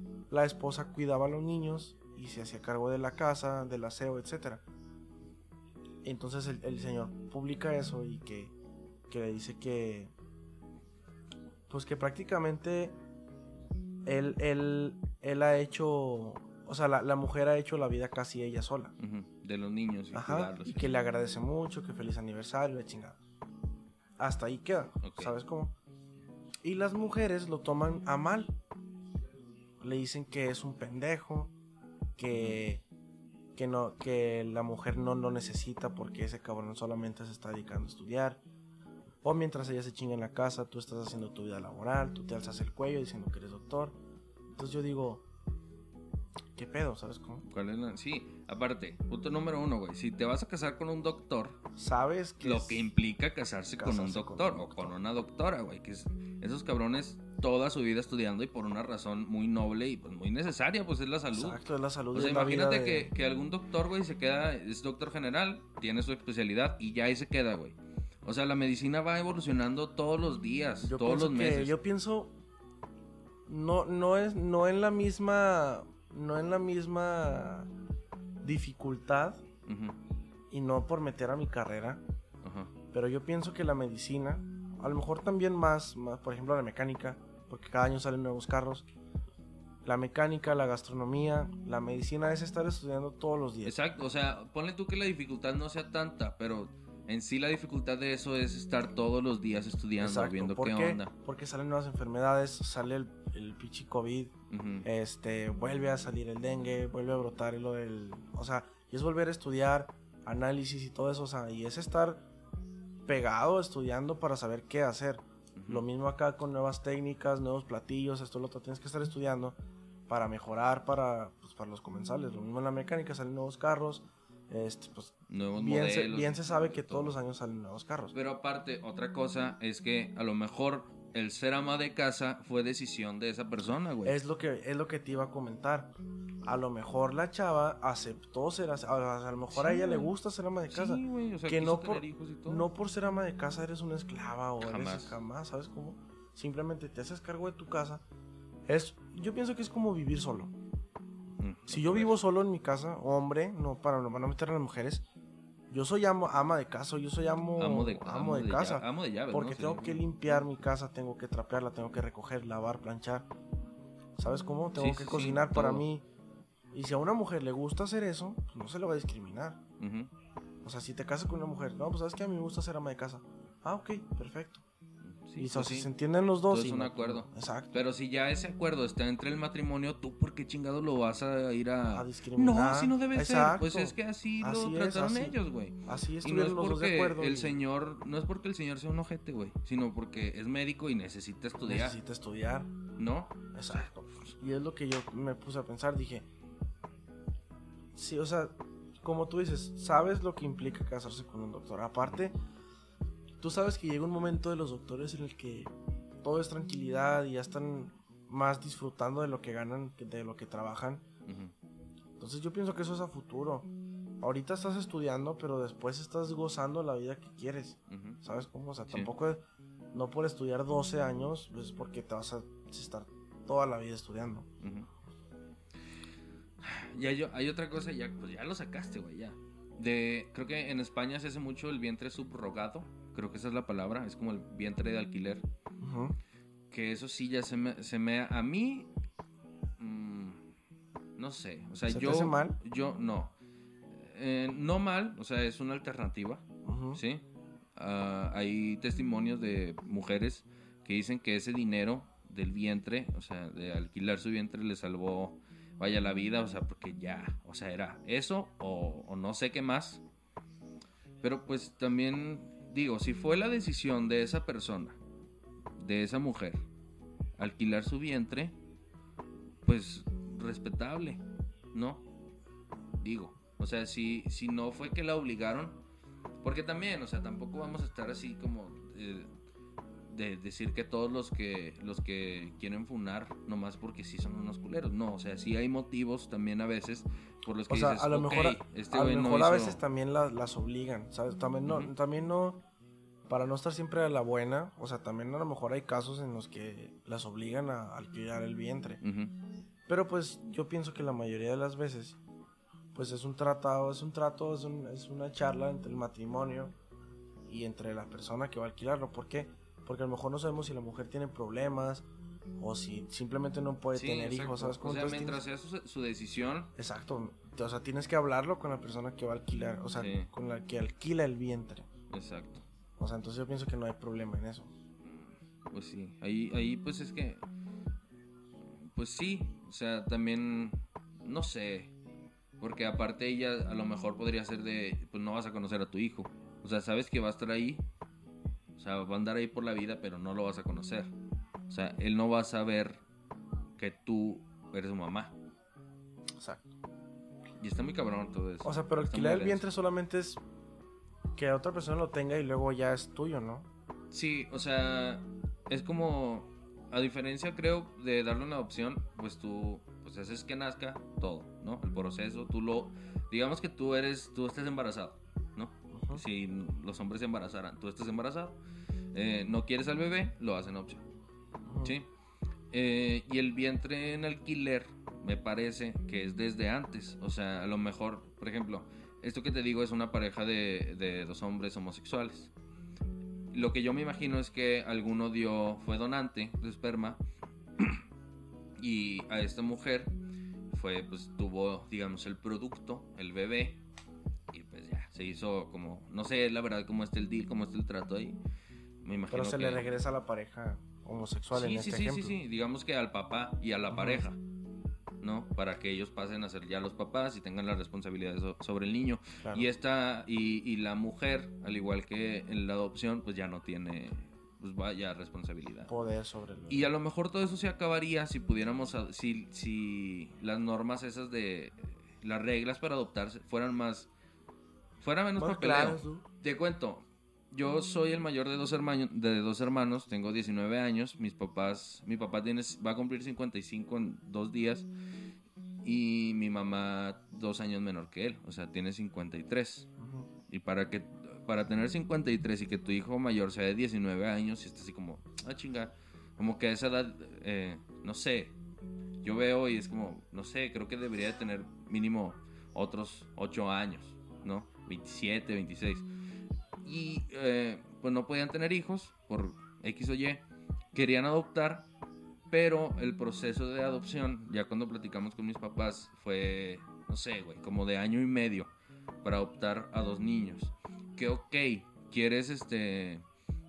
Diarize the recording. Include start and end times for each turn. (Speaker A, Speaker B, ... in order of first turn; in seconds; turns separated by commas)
Speaker A: 0.3-4.6, Speaker A: 6.0-8.5, Speaker A: 9.1-10.1, Speaker A: 11.7-13.0, Speaker A: 14.1-18.9, Speaker B: 19.0-20.9, Speaker A: 20.1-23.2, Speaker A: 24.2-25.7, Speaker B: 25.0-25.3, Speaker A: 26.6-28.5, Speaker A: 29.8-31.5, Speaker A: 32.2-32.8, Speaker B: 32.3-32.6, Speaker A: 33.5-38.4, Speaker A: 39.2-44.0, Speaker A: 44.5-45.2, Speaker A: 46.5-47.4, Speaker B: 47.4-51.6, Speaker A: 51.8-52.9, Speaker B: 52.4-61.6, Speaker A: 53.8-55.0, Speaker A: 61.3-63.1, Speaker B: 62.1-71.7, Speaker A: 70.8-72.3, Speaker A: 73.5-77.7, Speaker A: 78.4-79.4, Speaker B: 79.7-80.0, Speaker A: 80.5-82.0, Speaker B: 82.4-82.7, Speaker A: 82.9-88.9, Speaker A: 89.8-93.7, Speaker B: 93.6-101.1, Speaker A: 100.0-104.3, Speaker B: 104.5-104.9, Speaker A: 104.8-112.2, Speaker A: 113.0-119.5, Speaker B: 115.5-115.8, Speaker A: 120.1-128.1, Speaker B: 125.3-127.1, Speaker B: 128.1-134.2, Speaker A: 134.0-135.9, Speaker A: 136.4-148.0, Speaker B: 139.5-140.1, Speaker B: 140.7-142.7, Speaker B: 144.6-145.2, Speaker A: 148.7-150.5, Speaker B: 151.4-152.2, Speaker A: 151.7-155.0, Speaker A: 155.7-163.3, Speaker B: 157.6-160.0, Speaker A: 164.2-166.0, Speaker B: 164.8-165.8, Speaker A: 166.7-169.6, Speaker B: 169.8-170.1, Speaker A: 170.6-174.6, Speaker B: 175.2-175.9, Speaker A: 175.4-177.8, Speaker B: 176.5-192.0, Speaker A: 181.9-185.3, Speaker A: 185.8-187.6, Speaker A: 191.7-192.7, Speaker B: 193.0-194.3, Speaker A: 193.5-196.3, Speaker A: 197.9-202.3, Speaker A: 203.4-211.0, Speaker B: 211.2-211.5, Speaker A: 212.2-213.7, Speaker A: 214.2-224.5, Speaker B: 217.9-218.2, Speaker B: 224.6-224.9, Speaker B: 226.6-235.4, Speaker A: 235.8-236.2, Speaker B: 236.7-238.9, Speaker B: 239.8-240.4, Speaker B: 241.2-243.3, Speaker A: 241.9-242.6, Speaker B: 243.9-247.2, Speaker A: 246.6-247.0, Speaker B: 247.8-260.0, Speaker B: 261.2-265.0, Speaker B: 265.8-266.6, Speaker B: 267.4-268.6, Speaker B: 269.6-271.2, Speaker B: 271.7-272.0, Speaker B: 273.0-275.8, Speaker B: 276.4-279.3, Speaker B: 280.1-289.8, Speaker A: 287.7-292.6, Speaker B: 291.7-291.9, Speaker A: 293.3-299.0, Speaker B: 299.0-299.3, Speaker A: 299.9-302.2, Speaker A: 302.9-306.7, Speaker A: 307.4-312.1, Speaker A: 312.6-315.4, Speaker B: 313.9-316.7, Speaker A: 316.8-321.9, Speaker B: 319.9-320.3, Speaker B: 322.1-322.6, Speaker A: 323.0-324.7, Speaker B: 325.0-327.4, Speaker B: 328.9-331.9, Speaker B: 332.6-337.8, Speaker B: 338.8-341.1, Speaker B: 341.7-343.0, Speaker B: 343.8-345.3, Speaker A: 346.4-346.7, Speaker B: 347.6-349.6, Speaker A: 348.6-350.4, Speaker A: 351.4-353.7, Speaker B: 354.1-368.6, Speaker A: 365.9-366.2, Speaker B: 369.1-371.0, Speaker A: 371.6-371.9, Speaker B: 372.7-382.5, Speaker B: 383.5-387.2, Speaker B: 387.8-388.0, Speaker B: 388.8-390.1, Speaker B: 390.7-393.8, Speaker B: 394.5-398.4, Speaker B: 399.0-399.8, Speaker A: 399.3-402.4, Speaker B: 401.5-404.4, Speaker A: 403.9-404.2, Speaker B: 405.2-415.9, Speaker A: 409.4-409.7, Speaker A: 415.9-416.9, Speaker B: 416.7-424.1, Speaker B: 425.0-434.9, Speaker A: 425.4-426.2, Speaker B: 435.8-439.9, Speaker A: 440.0-440.3, Speaker B: 440.5-448.6, Speaker B: 449.2-456.1, Speaker B: 456.8-461.9, Speaker B: 462.5-468.7, Speaker B: 469.2-473.2